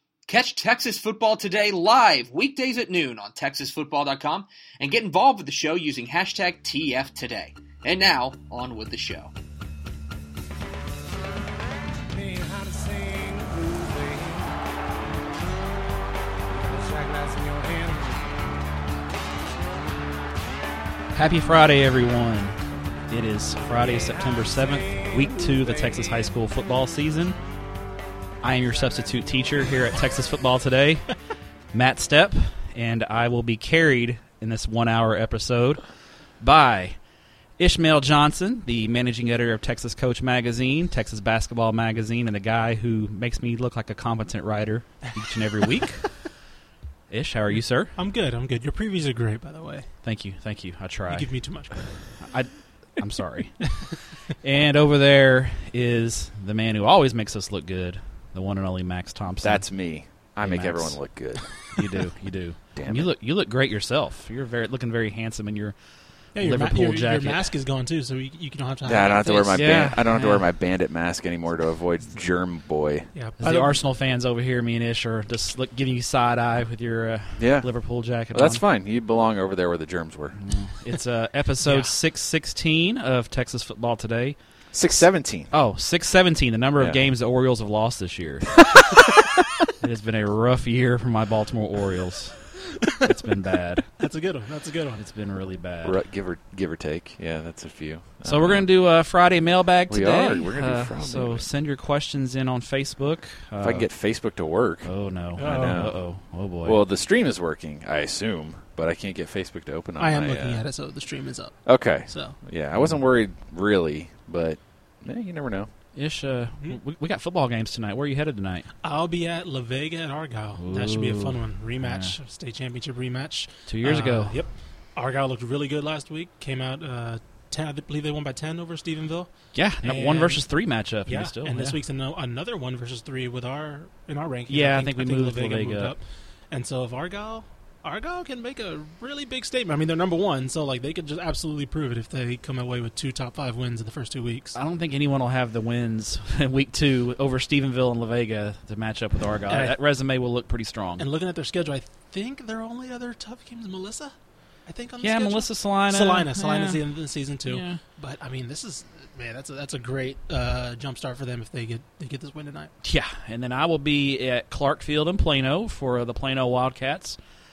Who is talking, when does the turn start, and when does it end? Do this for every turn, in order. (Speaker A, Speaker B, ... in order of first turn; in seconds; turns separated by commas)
Speaker A: 0.3-9.3, Speaker B: 12.4-14.3, Speaker B: 16.9-18.1, Speaker C: 21.1-27.4, Speaker C: 28.4-31.1, Speaker C: 31.7-35.8, Speaker C: 36.4-37.0, Speaker C: 37.6-46.2, Speaker C: 47.1-48.0, Speaker D: 48.0-49.9, Speaker C: 50.0-51.3, Speaker D: 51.1-52.2, Speaker C: 52.2-53.8, Speaker C: 54.4-59.7, Speaker E: 59.4-61.5, Speaker C: 60.4-61.1, Speaker C: 61.7-65.8, Speaker E: 62.8-63.1, Speaker D: 66.3-70.0, Speaker C: 66.4-67.5, Speaker E: 68.8-73.1, Speaker C: 69.5-70.5, Speaker D: 73.1-73.8, Speaker C: 73.4-78.6, Speaker E: 77.4-77.7, Speaker E: 78.3-80.4, Speaker C: 80.4-84.4, Speaker D: 81.7-81.9, Speaker E: 84.7-85.5, Speaker C: 85.5-88.9, Speaker E: 86.8-87.1, Speaker C: 89.8-93.9, Speaker D: 94.0-95.1, Speaker C: 95.0-96.0, Speaker E: 95.8-98.7, Speaker C: 98.2-103.9, Speaker E: 99.9-101.5, Speaker E: 103.6-104.9, Speaker C: 104.8-106.8, Speaker D: 105.4-105.9, Speaker E: 105.4-106.0, Speaker E: 106.7-110.6, Speaker D: 110.0-112.4, Speaker E: 111.7-115.7, Speaker C: 116.0-118.7, Speaker D: 118.8-130.4, Speaker C: 120.6-122.2, Speaker C: 123.7-124.4, Speaker C: 129.5-131.8, Speaker D: 131.1-136.0, Speaker C: 134.5-135.9, Speaker D: 136.5-144.6, Speaker C: 144.6-151.1, Speaker D: 149.5-149.8, Speaker D: 151.0-154.1, Speaker D: 154.7-162.7, Speaker C: 155.0-156.8, Speaker C: 157.5-157.8, Speaker C: 162.8-167.2